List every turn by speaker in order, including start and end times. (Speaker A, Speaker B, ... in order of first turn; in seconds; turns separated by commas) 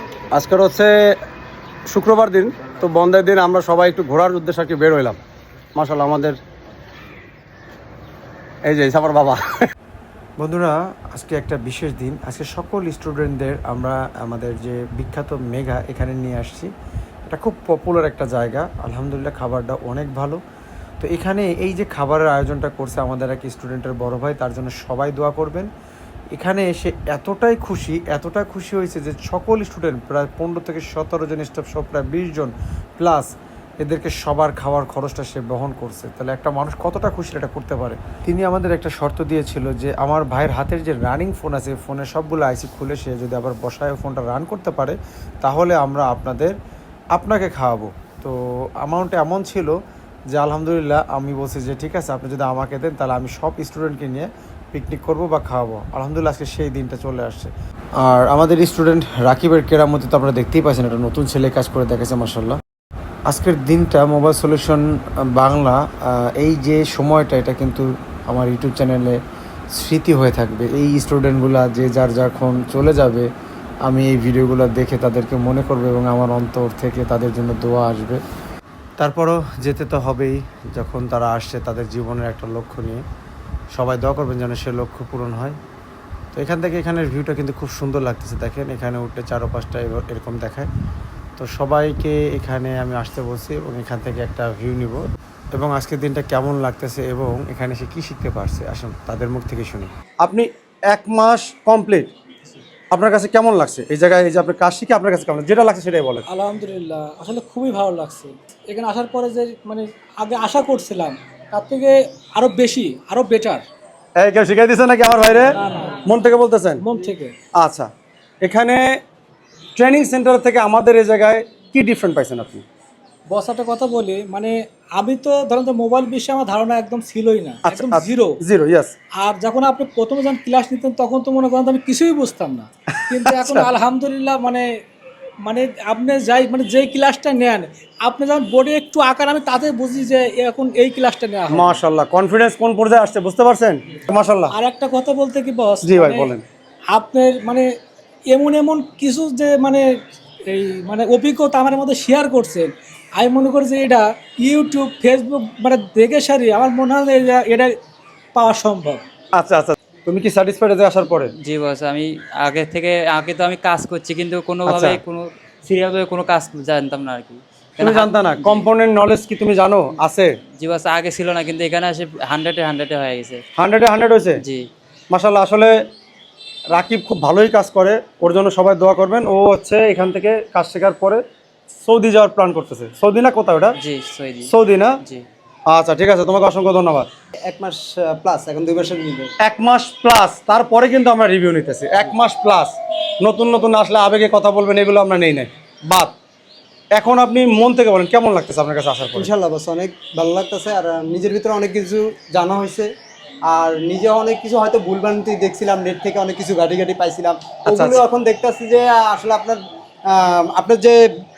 Speaker A: 0.3-0.9, Speaker A: 1.9-5.2, Speaker A: 5.8-6.3, Speaker A: 8.7-9.6, Speaker B: 10.4-16.7, Speaker B: 17.3-20.4, Speaker B: 21.0-25.7, Speaker B: 26.4-33.3, Speaker B: 33.8-46.5, Speaker B: 47.1-49.8, Speaker B: 50.3-62.6, Speaker B: 63.3-69.2, Speaker B: 69.8-73.3, Speaker B: 73.9-78.2, Speaker B: 79.0-83.0, Speaker B: 83.8-85.6, Speaker B: 86.3-90.7, Speaker B: 91.4-95.0, Speaker B: 95.5-99.9, Speaker A: 100.2-102.1, Speaker A: 102.9-106.2, Speaker C: 106.3-113.6, Speaker A: 114.2-116.8, Speaker C: 115.5-116.1, Speaker C: 116.8-117.3, Speaker A: 117.6-117.9, Speaker A: 118.4-118.9, Speaker A: 119.8-122.7, Speaker C: 123.3-128.4, Speaker A: 127.7-128.9, Speaker C: 129.2-134.7, Speaker A: 133.0-133.7, Speaker C: 135.4-141.8, Speaker A: 141.5-144.5, Speaker C: 144.5-146.3, Speaker A: 145.8-146.4, Speaker C: 146.9-147.7, Speaker C: 148.3-149.9, Speaker C: 150.5-157.7, Speaker C: 158.3-159.0, Speaker A: 159.3-161.3, Speaker D: 161.4-168.7, Speaker A: 164.7-165.0, Speaker A: 167.8-170.3, Speaker D: 170.6-173.4, Speaker A: 173.6-174.4, Speaker D: 174.4-174.7, Speaker A: 175.1-175.8, Speaker A: 176.7-181.2, Speaker A: 181.8-183.8, Speaker D: 183.8-185.2, Speaker A: 184.4-184.9, Speaker A: 185.7-187.1, Speaker E: 187.5-189.3, Speaker A: 189.4-196.1, Speaker A: 196.9-199.3, Speaker E: 199.1-202.9, Speaker E: 203.5-211.0, Speaker A: 207.7-208.0